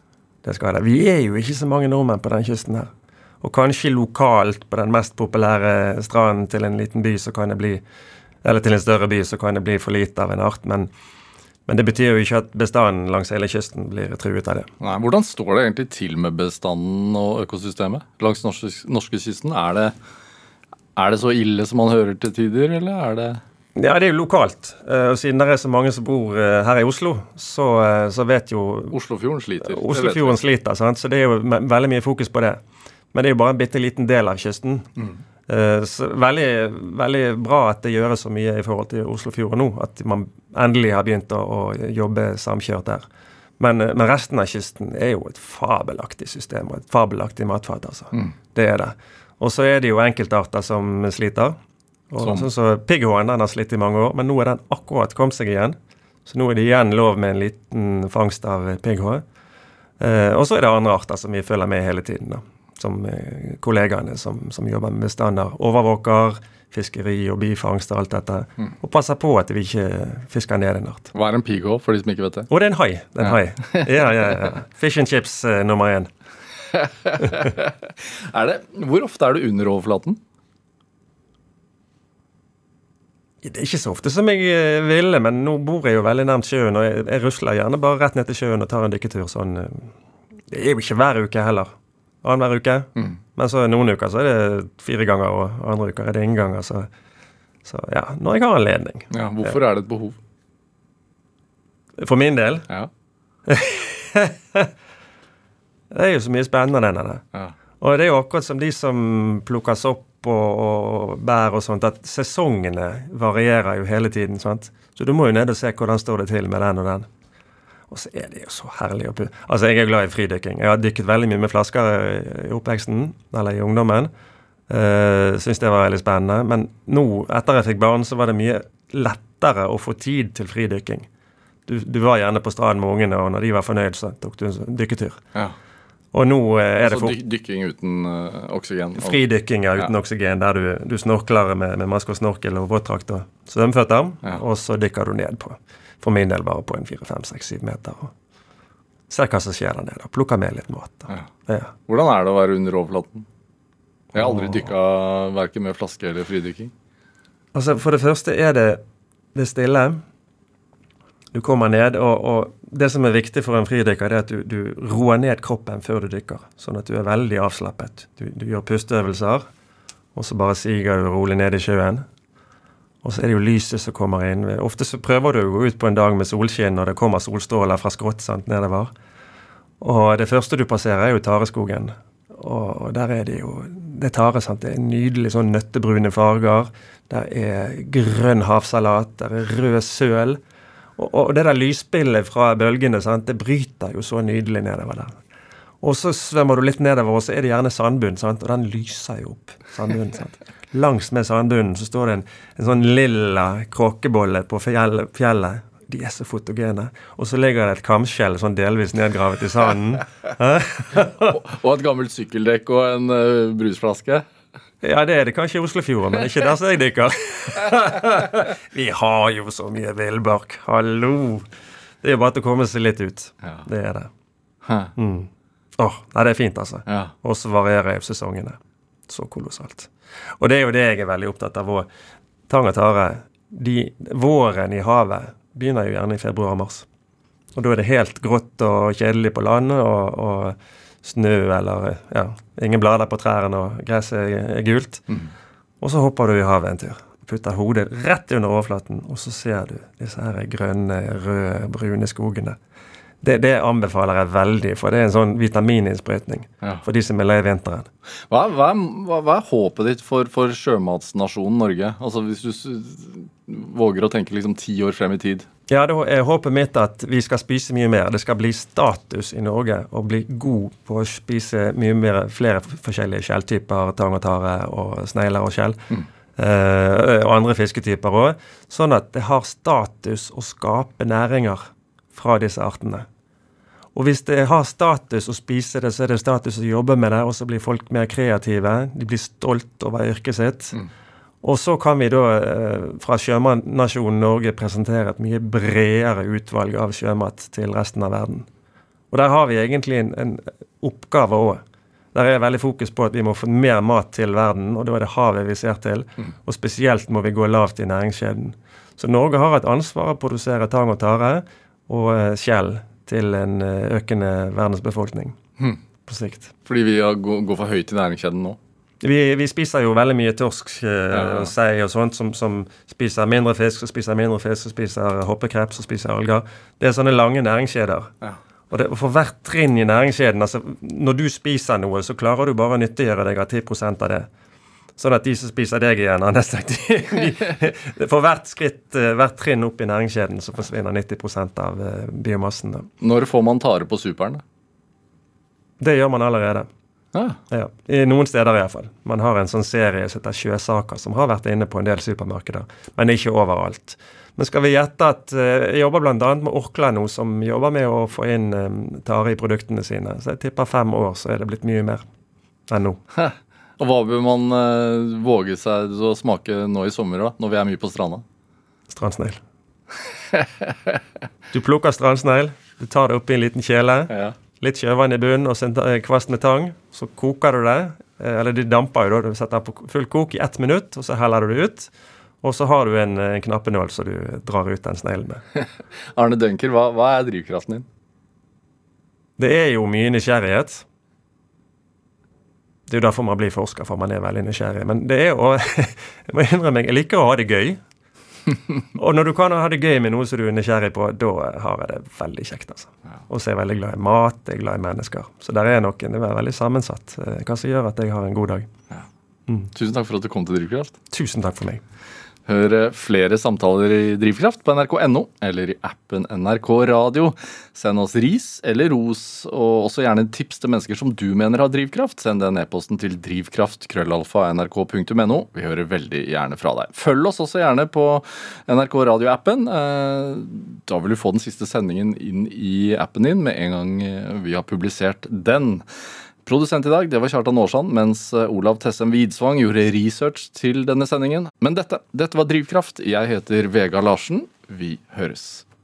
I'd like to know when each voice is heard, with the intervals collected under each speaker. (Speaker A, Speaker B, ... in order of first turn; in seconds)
Speaker A: 0.4-2.9, 3.4-7.8, 8.4-10.9, 11.7-14.7, 23.8-29.0, 29.6-32.6, 33.1-34.9, 35.5-43.0, 43.6-51.6, 52.1-59.2, 60.0-71.1, 72.5-76.1, 83.4-89.9, 90.5-91.7, 92.2-96.9, 97.6-99.5, 102.0-102.7, 103.5-104.7, 105.9-107.2, 107.8-117.1, 117.9-124.1, 124.7-131.1, 131.7-135.2, 136.1-137.2, 139.0-148.1, 149.1-151.7, 154.1-154.5, 157.5-158.8, 159.3-160.0, 161.3-169.4, 170.1-172.0, 173.0-178.9, 179.8-190.4, 191.0-195.1, 195.8-211.3, 214.8-221.5, 222.0-224.1, 224.9-231.9, 232.5-236.9, 237.5-245.0, 245.8-252.6, 253.2-257.9, 265.7-275.8, 276.4-283.1, 283.9-290.8, 291.4-298.5, 299.1-301.6, 302.1-315.4, 316.1-316.5, 319.0-328.1, 328.7-334.3, 335.0-342.9, 345.8-346.7, 347.5-362.0, 362.7-363.0, 368.9-369.4, 371.5-381.9, 382.4-385.4, 389.4-390.8, 392.9-397.8, 398.9-408.7, 411.1-411.8
Speaker B: 14.8-19.9, 20.9-23.4, 28.9-30.4, 52.2-52.5, 71.1-72.5, 73.2-73.9, 76.7-80.2, 99.1-100.2, 136.8-139.2, 151.9-153.2, 154.1-156.7, 211.2-214.2, 224.6-224.9, 226.9-227.1, 258.3-265.4, 316.6-318.6, 321.1-321.5, 343.0-344.4, 347.1-347.4, 363.2-368.2, 374.1-374.4, 386.1-387.8, 409.7-410.9, 412.5-435.8, 436.4-445.6